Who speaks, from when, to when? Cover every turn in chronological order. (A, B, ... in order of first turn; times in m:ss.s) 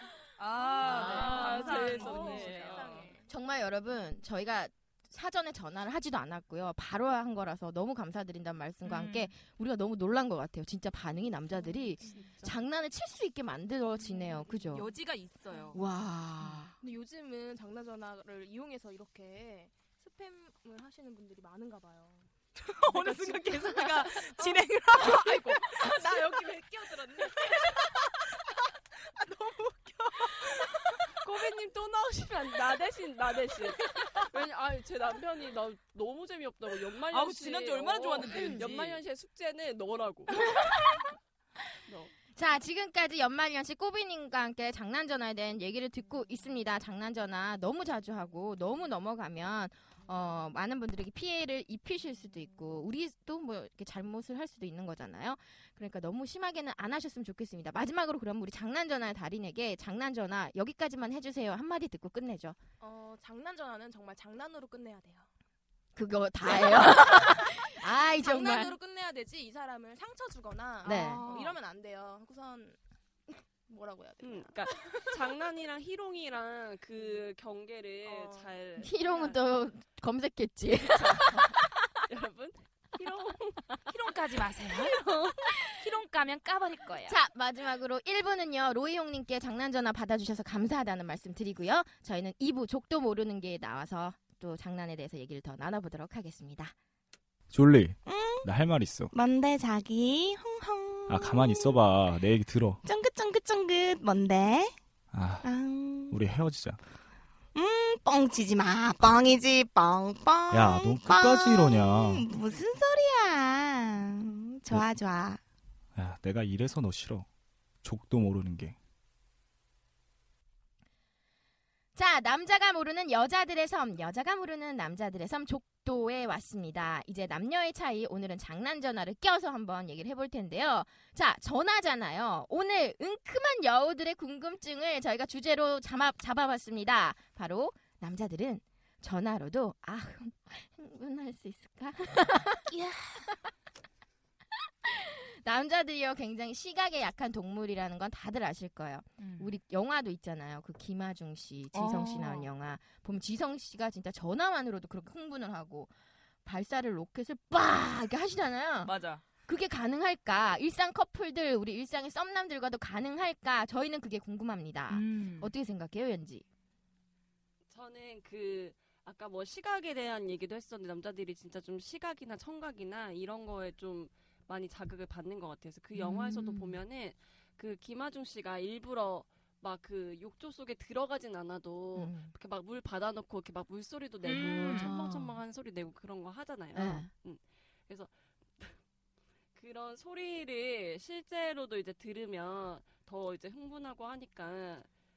0:00.4-0:03.1 A
0:00.6-0:03.3 B
0:00.8-0:01.6 C
0:00.8-0:03.1 D
0:03.3-0:14.9 C
0:08.8-0:09.3 A
0:12.0-0:12.3 B
0:12.0-0:12.5 D
0:14.1-0:14.8 B
0:14.7-0:15.8 A
0:15.5-0:15.8 B
0:15.7-0:16.8 C
0:16.8-0:22.3 B
0:22.6-0:26.1 A
0:22.8-0:27.9 B
0:29.2-0:30.6 A
0:31.2-0:40.6 D
0:37.1-0:39.0 A
0:38.3-0:38.7 C
0:40.5-0:41.0 C
0:41.9-0:42.1 D
0:42.3-1:02.6 C
1:02.8-1:05.3 B
1:05.9-1:08.8 C
1:06.5-1:15.0 B
1:10.8-1:11.2 C
1:10.8-1:11.6 A
1:14.2-1:19.0 D
1:16.9-1:17.2 B
1:18.0-1:19.4 B
1:18.8-1:21.6 C
1:20.9-1:23.9 D
1:23.9-1:25.1 A
1:24.7-1:25.4 D
1:25.8-1:27.2 A
1:27.1-1:36.7 C
1:37.5-1:39.1 E
1:38.0-1:38.5 F
1:39.1-1:41.8 F
1:41.1-1:42.8 E
1:42.8-1:44.7 F
1:45.1-1:45.4 E
1:45.4-1:46.2 F
1:46.1-1:46.8 E
1:47.5-1:55.4 F
1:50.5-1:52.2 E
1:55.9-1:57.3 E
1:57.8-1:58.8 E
2:01.9-2:22.7 C
2:22.7-2:23.4 A
2:24.8-2:35.9 C
2:29.2-2:29.5 A
2:31.7-2:32.5 A
2:36.4-2:38.9 C
2:38.8-2:39.2 A
2:39.4-2:46.4 C
2:44.9-2:45.5 A
2:47.7-3:08.8 D
2:55.9-2:56.8 C
3:01.9-3:02.3 C
3:04.2-3:04.9 A
3:04.3-3:05.4 C
3:06.7-3:07.1 C
3:09.5-3:14.9 D